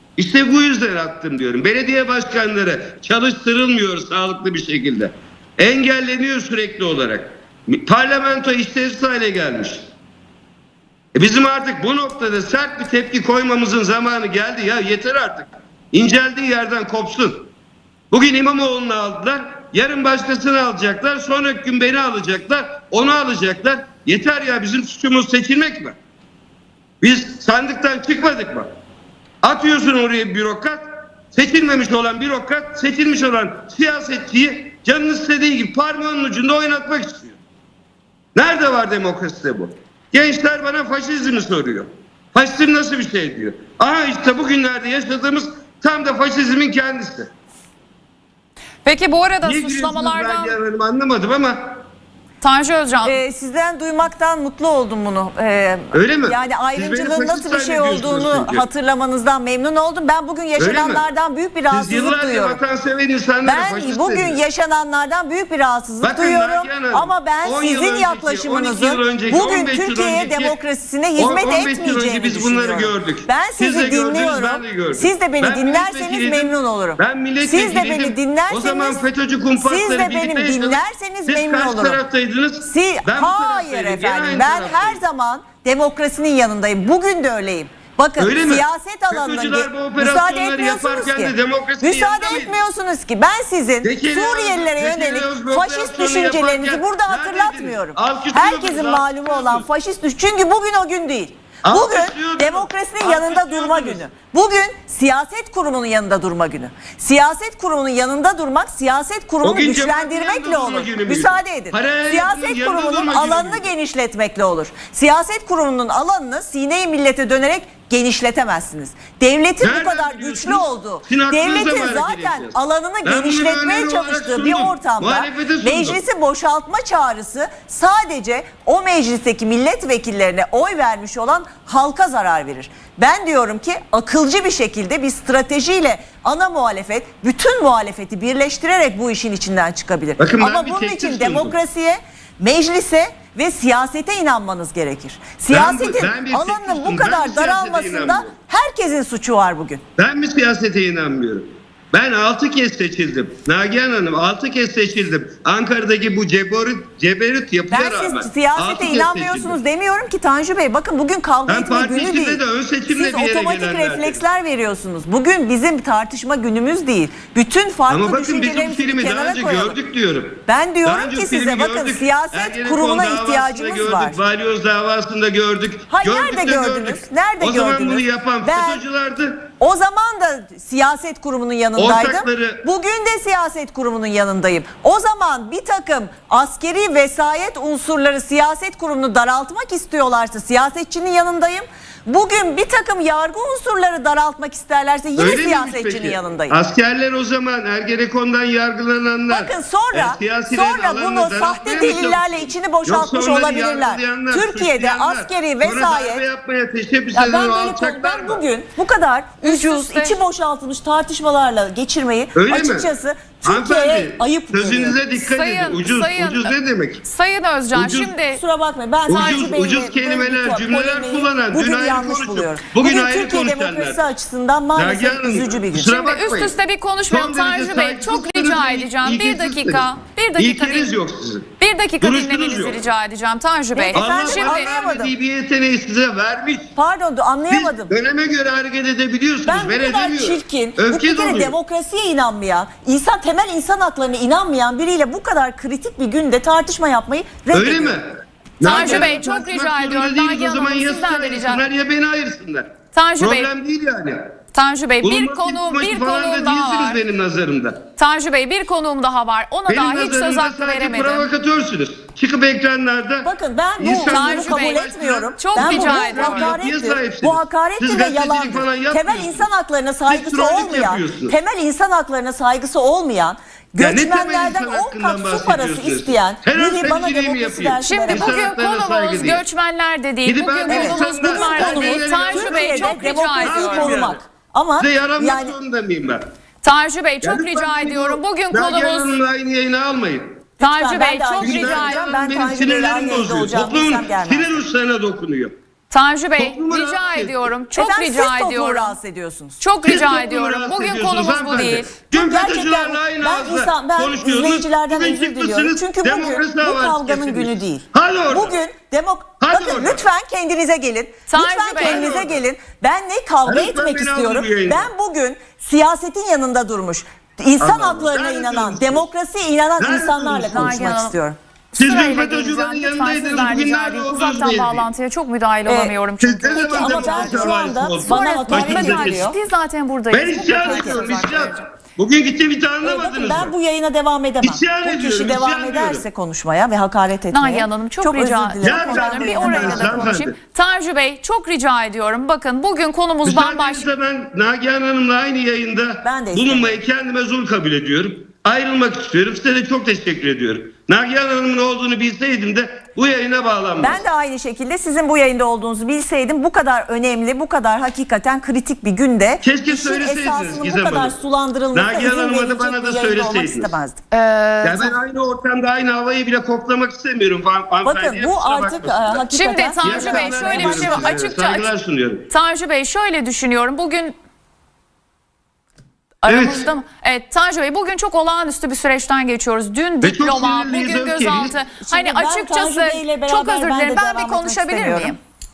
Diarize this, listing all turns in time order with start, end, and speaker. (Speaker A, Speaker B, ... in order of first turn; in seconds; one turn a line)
Speaker A: 0.1-9.9
Speaker A: 11.1-17.5
Speaker A: 18.1-26.0
Speaker A: 27.0-28.7
Speaker A: 29.4-37.4
Speaker A: 38.4-47.3
Speaker B: 48.9-50.6
Speaker A: 49.4-51.8
Speaker B: 52.4-53.2
Speaker C: 53.0-62.6
Speaker A: 55.9-58.6
Speaker A: 60.6-61.1
Speaker A: 61.7-64.4
Speaker C: 63.4-79.0
Speaker A: 66.0-70.6
Speaker A: 71.2-85.0
Speaker C: 79.6-82.0
Speaker C: 82.7-149.8
Speaker A: 88.2-92.6
Speaker A: 93.8-99.7
Speaker A: 101.6-104.1
Speaker A: 109.4-113.7
Speaker A: 119.6-126.0
Speaker A: 140.2-141.6
Speaker A: 145.5-148.3
Speaker A: 150.0-159.6
Speaker C: 157.7-169.8
Speaker A: 161.5-164.2
Speaker A: 167.9-179.5
Speaker C: 170.5-174.2
Speaker C: 175.9-178.8
Speaker C: 179.6-196.6
Speaker A: 181.8-182.6
Speaker A: 195.2-208.4
Speaker C: 199.3-206.2
Speaker C: 207.1-215.0
Speaker B: 209.4-210.2
Speaker A: 212.3-212.9
Speaker A: 213.4-217.1
Speaker B: 215.2-218.4
Speaker A: 217.7-218.2
Speaker C: 218.3-225.9
Speaker A: 219.1-224.1
Speaker A: 224.8-226.6
Speaker B: 225.8-231.0
Speaker A: 227.1-231.5
Speaker B: 231.6-234.7
Speaker A: 232.0-232.8
Speaker C: 233.8-235.1
Speaker A: 233.9-236.7
Speaker C: 236.8-237.9
Speaker A: 237.5-241.6
Speaker C: 239.4-248.0
Speaker A: 247.5-254.3
Speaker B: 248.6-251.7
Speaker B: 252.9-253.5
Speaker B: 254.5-257.0
Speaker A: 255.0-257.9
Speaker B: 258.0-261.3
Speaker A: 259.7-269.5
Speaker C: 263.2-278.4
Speaker B: 263.9-264.9
Speaker B: 265.4-266.6
Speaker A: 270.1-271.4
Speaker A: 273.8-279.4
Speaker B: 277.8-284.1
Speaker A: 280.2-284.2
Speaker C: 280.7-285.6
Speaker A: 284.8-286.2
Speaker B: 286.6-289.2
Speaker A: 287.2-290.4
Speaker C: 290.6-294.6
Speaker B: 290.6-292.1
Speaker A: 291.4-295.5
Speaker B: 295.9-299.0
Speaker A: 296.4-297.5
Speaker C: 297.7-299.6
Speaker B: 299.6-301.9
Speaker A: 299.8-308.6
Speaker C: 302.1-321.4
Speaker A: 309.4-310.1
Speaker B: 311.3-312.0
Speaker A: 311.8-312.4
Speaker A: 313.4-314.9
Speaker A: 317.6-319.1
Speaker A: 319.8-320.9
Speaker B: 320.5-321.2
Speaker B: 321.7-331.6
Speaker A: 321.8-324.9
Speaker C: 325.7-325.9
Speaker A: 326.2-329.3
Speaker C: 326.5-329.4
Speaker A: 330.1-333.5
Speaker C: 330.4-331.1
Speaker C: 332.8-340.2
Speaker A: 334.4-336.1
Speaker B: 337.3-343.9
Speaker A: 338.6-340.4
Speaker A: 343.2-354.0
Speaker C: 346.0-346.8
Speaker C: 353.8-364.0
Speaker A: 359.4-361.2
Speaker A: 361.7-363.8
Speaker B: 364.1-364.9
Speaker A: 364.6-369.2
Speaker C: 367.8-371.1
Speaker B: 369.3-371.7
Speaker A: 369.8-372.3
Speaker B: 372.3-374.1
Speaker B: 376.2-385.2
Speaker A: 376.3-376.7
Speaker A: 380.0-381.6
Speaker C: 381.8-385.2